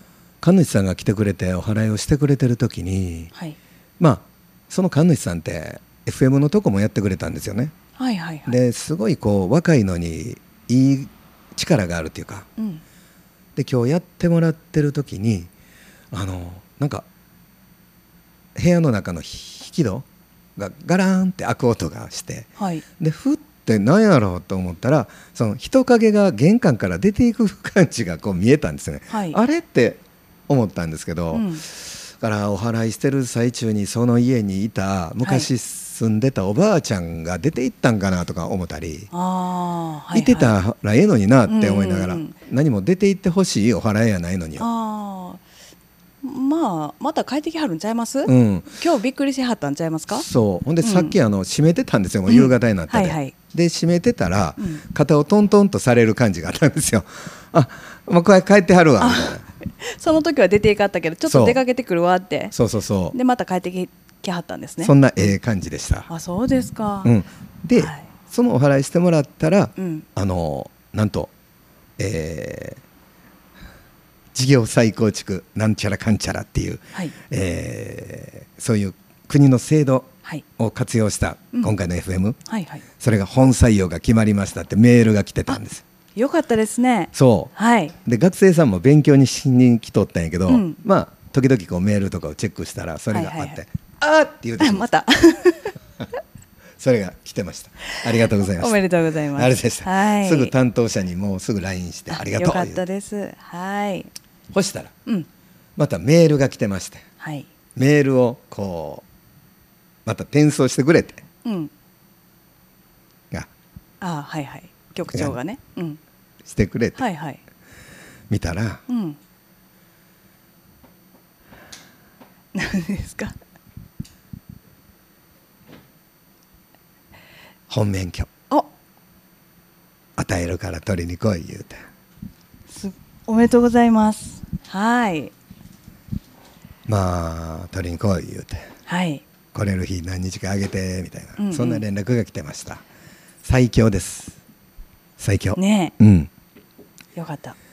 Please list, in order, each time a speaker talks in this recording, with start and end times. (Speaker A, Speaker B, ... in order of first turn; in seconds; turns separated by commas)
Speaker A: 0.4-3.3, Speaker A: 4.0-7.7, Speaker B: 8.0-8.6, Speaker A: 8.5-12.5, Speaker B: 12.6-12.8, Speaker A: 13.6-15.5, Speaker A: 16.1-17.1, Speaker A: 18.6-22.5, Speaker B: 22.6-22.8, Speaker A: 23.0-39.1, Speaker B: 29.1-29.4, Speaker B: 31.3-31.6, Speaker B: 35.2-35.5, Speaker B: 39.1-40.6, Speaker A: 40.1-44.7, Speaker B: 41.5-42.4, Speaker B: 44.6-45.4, Speaker B: 46.2-50.2, Speaker A: 48.2-48.8, Speaker A: 50.1-59.4, Speaker B: 50.8-51.1, Speaker B: 52.3-53.3, Speaker B: 54.6-54.8, Speaker B: 59.0-62.5, Speaker A: 61.3-61.6, Speaker A: 62.5-63.1, Speaker B: 63.1-65.4, Speaker A: 64.8-66.1, Speaker B: 66.1-67.1, Speaker A: 67.0-71.3, Speaker B: 67.7-68.0, Speaker B: 69.8-70.0, Speaker A: 72.0-72.8, Speaker A: 74.3-82.4, Speaker B: 82.5-82.8, Speaker A: 83.0-85.8, Speaker B: 86.1-87.9, Speaker A: 87.1-87.5, Speaker A: 88.0-94.9, Speaker B: 90.5-90.8, Speaker B: 93.1-93.6, Speaker B: 94.6-95.8, Speaker A: 96.8-98.8, Speaker B: 97.9-100.5, Speaker A: 99.3-102.8, Speaker B: 102.1-104.1, Speaker A: 104.5-104.9, Speaker A: 105.8-107.0, Speaker B: 107.2-107.5, Speaker A: 107.8-109.0, Speaker A: 110.0-111.2, Speaker B: 111.4-111.7, Speaker B: 114.0-116.0, Speaker A: 116.5-117.0, Speaker B: 117.0-117.4, Speaker A: 118.3-118.8, Speaker B: 118.9-119.2, Speaker B: 122.5-123.3, Speaker A: 127.7-128.3, Speaker A: 130.2-131.8, Speaker B: 132.7-135.3, Speaker A: 136.9-138.6, Speaker B: 138.8-139.2, Speaker A: 139.5-142.8, Speaker B: 141.4-141.8, Speaker A: 143.4-144.4, Speaker A: 145.2-146.3, Speaker B: 145.5-145.9, Speaker B: 147.2-147.6